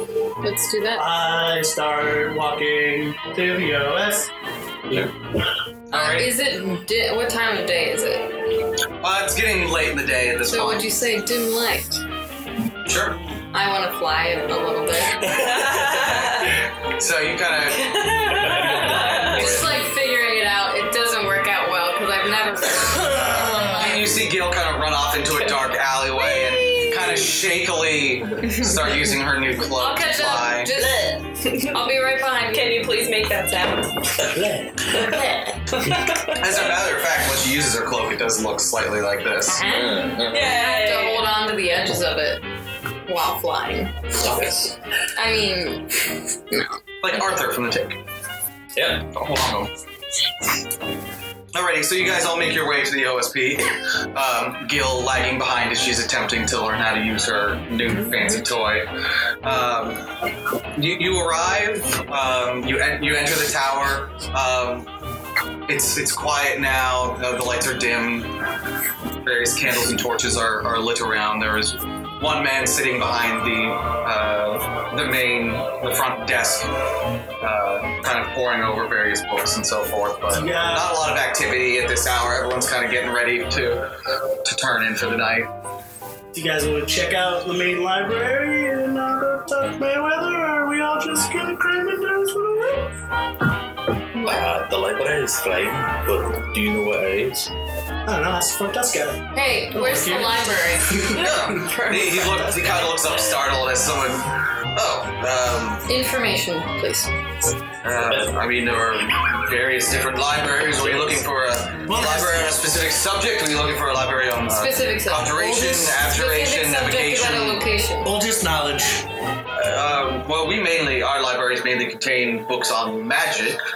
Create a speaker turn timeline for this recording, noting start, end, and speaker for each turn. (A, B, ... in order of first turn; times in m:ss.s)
0:00.4-0:01.1 A
0:00.9-0:04.3 B
0:05.9-0:08.4 A
0:05.9-0:06.3 C
0:09.0-0:10.9 D
0:10.5-0:12.0 A
0:12.8-0:13.2 D
0:13.5-0:15.4 A
0:15.3-0:16.6 C
0:16.8-0:18.0 D
0:17.7-0:19.6 C
0:18.4-0:19.7 E
0:19.3-0:24.2 A
0:23.7-0:30.7 D
0:26.2-0:27.3 C
0:28.4-0:28.9 A
0:29.6-0:31.0 A
0:30.7-0:31.8 C
0:31.7-0:32.8 A
0:32.5-0:34.2 C
0:34.2-0:34.9 E
0:34.9-0:36.3 C
0:36.4-0:39.6 D
0:39.5-0:42.4 A
0:39.7-0:40.5 E
0:40.3-0:41.3 C
0:43.1-0:44.0 A
0:44.2-0:44.8 E
0:45.1-0:45.9 A
0:46.5-0:46.8 A
0:47.0-0:48.0 D
0:48.7-0:49.0 E
0:49.0-0:49.7 D
0:51.5-0:58.9 D
0:59.4-1:00.1 D
1:00.8-1:04.9 D
1:05.7-1:08.3 D
1:09.2-1:16.7 D
1:17.4-1:23.9 D
1:20.3-1:21.0 B
1:24.4-1:25.5 D
1:26.3-1:32.9 B
1:34.2-1:37.5 E
1:38.0-1:41.7 B
1:39.3-1:41.1 A
1:41.1-1:45.8 D
1:41.2-1:42.3 C
1:45.9-1:47.2 A
1:47.8-1:57.7 D
1:51.8-1:52.5 B
1:54.6-1:55.5 A
1:55.3-1:56.1 B
1:56.1-1:58.1 A
1:58.0-1:59.0 B
1:59.5-2:03.6 D